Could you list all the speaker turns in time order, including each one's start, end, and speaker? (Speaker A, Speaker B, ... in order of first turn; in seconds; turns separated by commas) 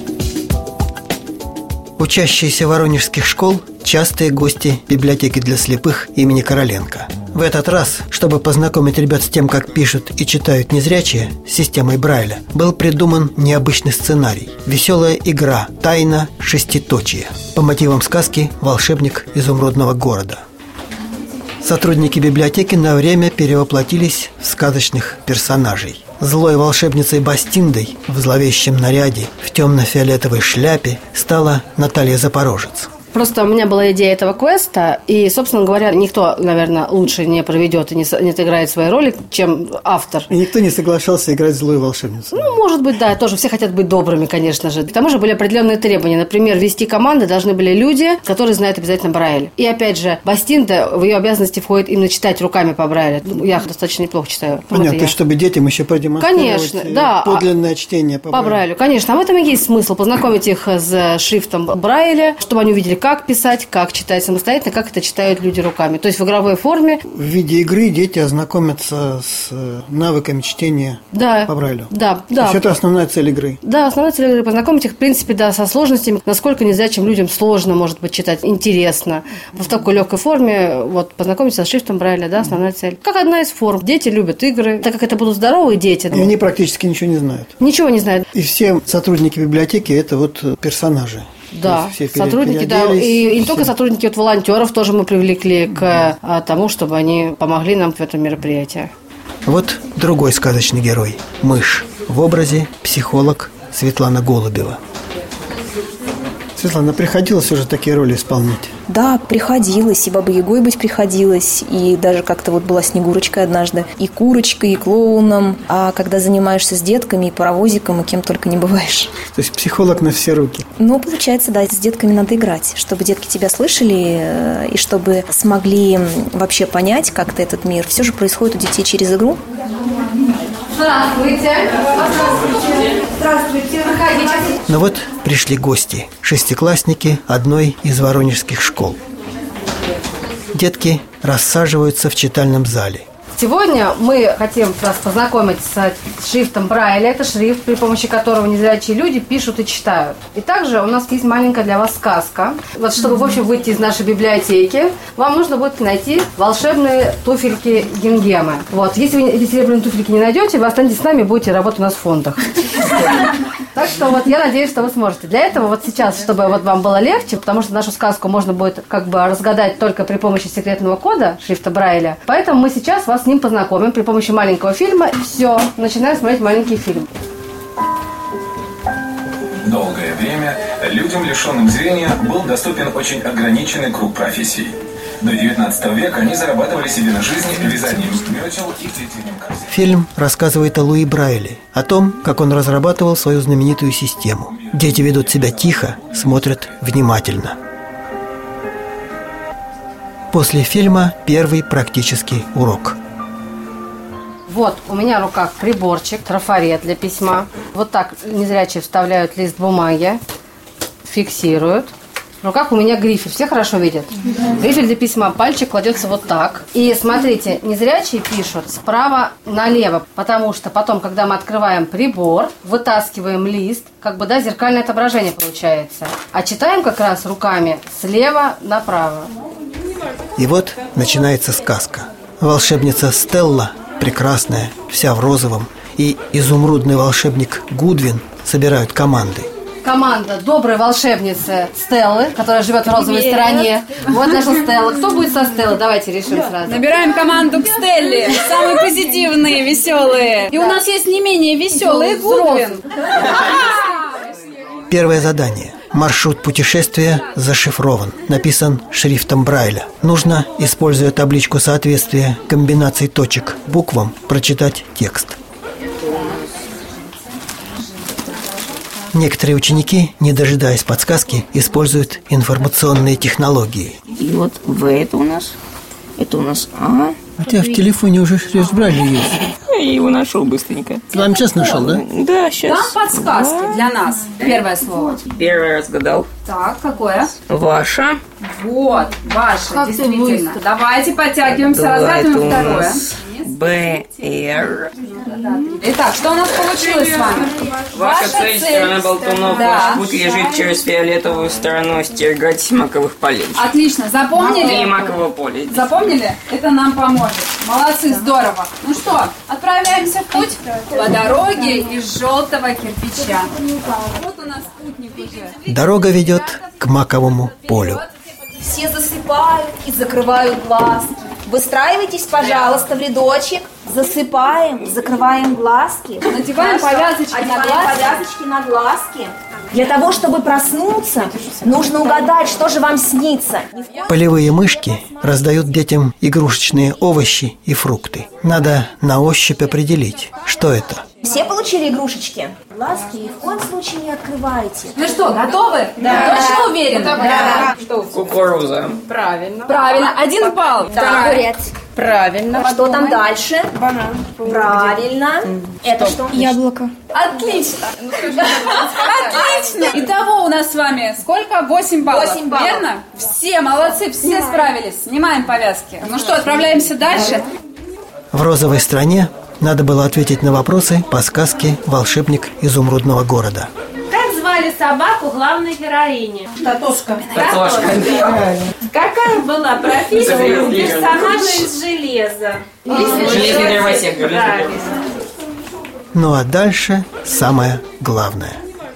Speaker A: 2.0-20.4, Speaker A: 21.6-32.9, Speaker B: 33.1-40.3, Speaker A: 40.3-42.4, Speaker B: 42.3-55.1, Speaker A: 54.7-58.6, Speaker B: 56.2-57.5, Speaker B: 58.3-67.0, Speaker A: 67.1-73.6, Speaker B: 71.1-72.6, Speaker B: 73.6-86.3, Speaker A: 86.1-87.5, Speaker B: 87.6-88.3, Speaker A: 88.3-93.7, Speaker B: 91.5-98.9, Speaker A: 99.4-104.8, Speaker A: 106.5-108.7, Speaker C: 108.9-119.1, Speaker A: 119.3-120.7, Speaker C: 120.8-129.4, Speaker B: 130.7-134.6, Speaker A: 134.7-139.0, Speaker A: 140.5-143.0, Speaker B: 143.3-163.1, Speaker B: 163.7-177.1, Speaker D: 179.6-189.7, Speaker A: 189.7-197.6, Speaker D: 195.3-196.0, Speaker A: 200.3-202.9, Speaker B: 204.5-210.2, Speaker B: 211.0-229.3, Speaker A: 230.4-239.5, Speaker B: 239.8-246.8, Speaker E: 243.1-243.4, Speaker E: 246.6-252.8, Speaker B: 251.8-252.8, Speaker E: 253.4-253.8, Speaker A: 254.9-265.3, Speaker A: 269.1-273.9, Speaker F: 274.2-275.5, Speaker F: 276.2-277.1, Speaker A: 277.4-279.4, Speaker F: 279.7-283.8, Speaker A: 281.1-282.0, Speaker E: 282.6-285.2, Speaker F: 285.3-286.3, Speaker E: 286.4-287.3, Speaker F: 287.5-288.2, Speaker E: 288.4-294.3, Speaker B: 289.7-290.5, Speaker F: 291.6-294.9, Speaker E: 295.1-300.7, Speaker F: 297.9-303.6, Speaker E: 303.5-305.1, Speaker F: 304.3-305.9, Speaker E: 305.7-316.4, Speaker A: 315.7-318.0, Speaker C: 318.6-333.7, Speaker E: 326.2-328.0, Speaker A: 334.1-341.1, Speaker C: 341.2-345.0, Speaker E: 344.9-348.1, Speaker F: 346.0-346.3, Speaker B: 347.2-347.7, Speaker F: 348.1-349.0, Speaker B: 349.1-349.6, Speaker E: 349.7-351.5, Speaker C: 350.9-351.7, Speaker C: 352.5-353.7, Speaker G: 353.8-355.0, Speaker C: 354.4-356.9, Speaker E: 357.3-367.4, Speaker C: 362.1-362.8, Speaker A: 368.3-373.7, Speaker G: 374.1-385.1, Speaker F: 377.3-378.4, Speaker F: 380.1-381.7, Speaker B: 382.8-383.9, Speaker E: 382.9-383.3, Speaker F: 383.2-384.8, Speaker A: 386.1-388.6